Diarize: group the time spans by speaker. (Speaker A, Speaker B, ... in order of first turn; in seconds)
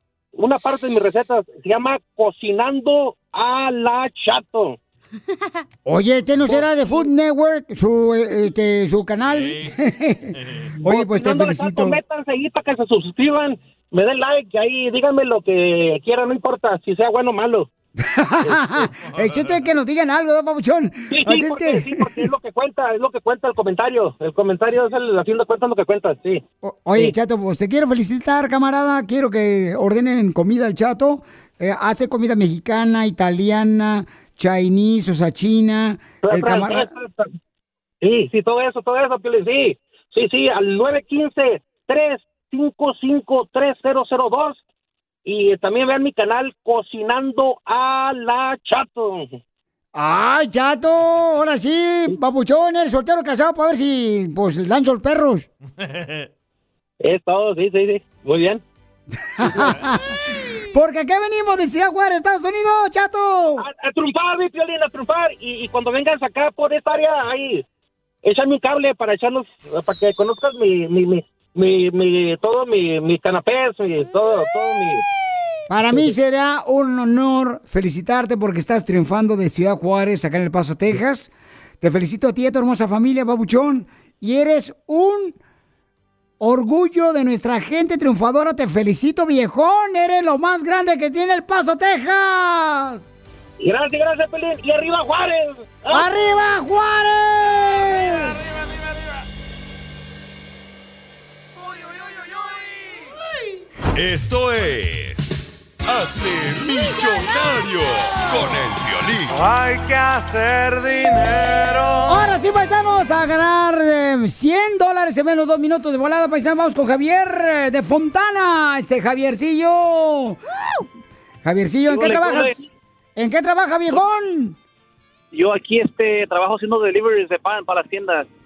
Speaker A: 0.4-4.8, 10.8-17.7, 21.1-26.4, 36.2-37.3, 38.0-44.6, 45.3-49.3, 57.0-58.6, 63.6-67.6, 68.2-75.0, 93.6-96.1
Speaker B: 5.8-12.0, 18.0-22.2, 26.6-36.9, 49.9-55.5, 59.4-63.7, 75.7-85.4, 86.4-93.0, 95.9-98.4, 112.1-120.4, 121.4-122.6, 123.2-124.6
Speaker C: 9.2-9.8, 10.3-10.7, 19.1-19.6, 55.8-56.3, 97.8-99.2, 101.8-102.7, 109.4-112.0
Speaker D: 104.0-109.5
Speaker E: 122.0-122.5, 125.4-128.2